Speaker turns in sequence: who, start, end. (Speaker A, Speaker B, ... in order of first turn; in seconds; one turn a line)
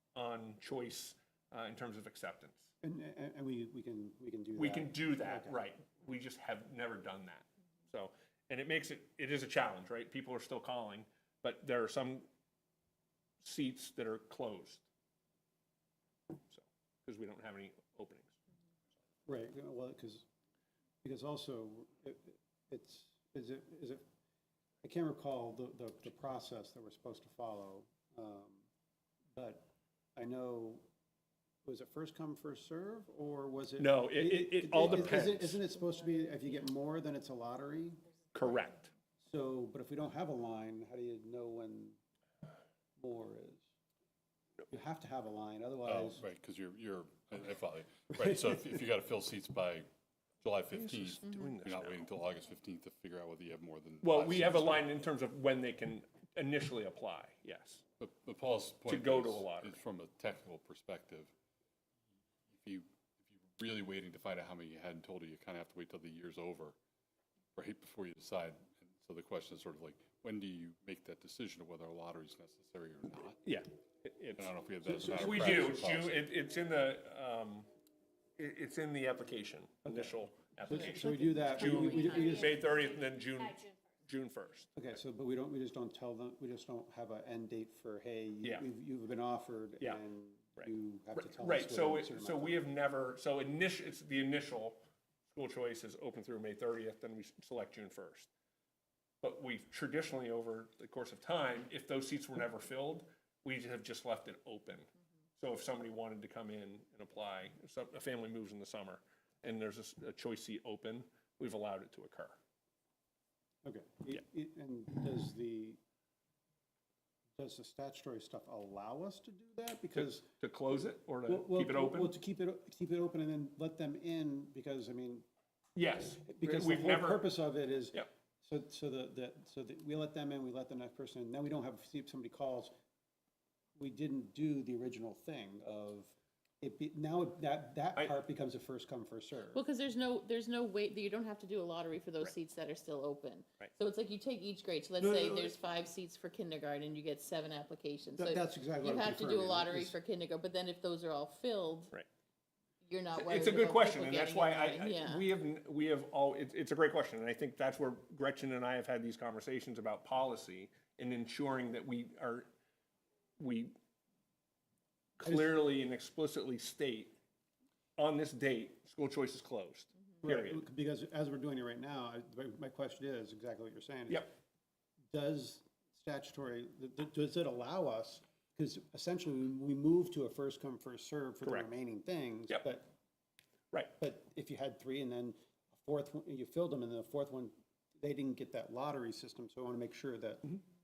Speaker A: 0.1-2.7
Speaker B: 2.8-5.5
Speaker A: 4.6-12.3
Speaker A: 13.4-14.8
Speaker A: 16.5-18.4
Speaker B: 19.2-20.2
Speaker B: 21.0-24.0
Speaker B: 24.8-28.6
Speaker B: 29.3-30.8
Speaker B: 31.6-38.0
Speaker A: 33.8-35.6
Speaker A: 38.3-38.9
Speaker B: 39.2-42.0
Speaker B: 43.0-43.6
Speaker B: 44.7-46.2
Speaker C: 45.9-49.9
Speaker C: 50.4-54.8
Speaker A: 50.7-52.0
Speaker A: 54.0-57.8
Speaker C: 58.0-61.3
Speaker A: 58.9-59.8
Speaker C: 62.5-66.8
Speaker C: 67.5-73.4
Speaker A: 73.4-77.7
Speaker C: 74.4-76.2
Speaker A: 78.4-84.7
Speaker B: 80.7-82.6
Speaker B: 84.8-92.6
Speaker A: 90.6-98.3
Speaker A: 99.2-112.3
Speaker B: 113.6-115.8
Speaker B: 117.4-120.3
Speaker A: 119.9-122.2
Speaker B: 121.2-125.2
Speaker A: 125.8-127.2
Speaker B: 126.2-132.7
Speaker B: 133.8-139.6
Speaker D: 139.5-151.9
Speaker B: 145.0-145.5
Speaker B: 148.2-149.9
Speaker D: 152.8-155.2
Speaker A: 153.2-162.5
Speaker A: 163.4-163.7
Speaker A: 165.2-167.1
Speaker A: 168.0-170.7
Speaker B: 170.2-174.3
Speaker B: 175.1-182.9
Speaker A: 181.4-181.7
Speaker B: 184.0-190.6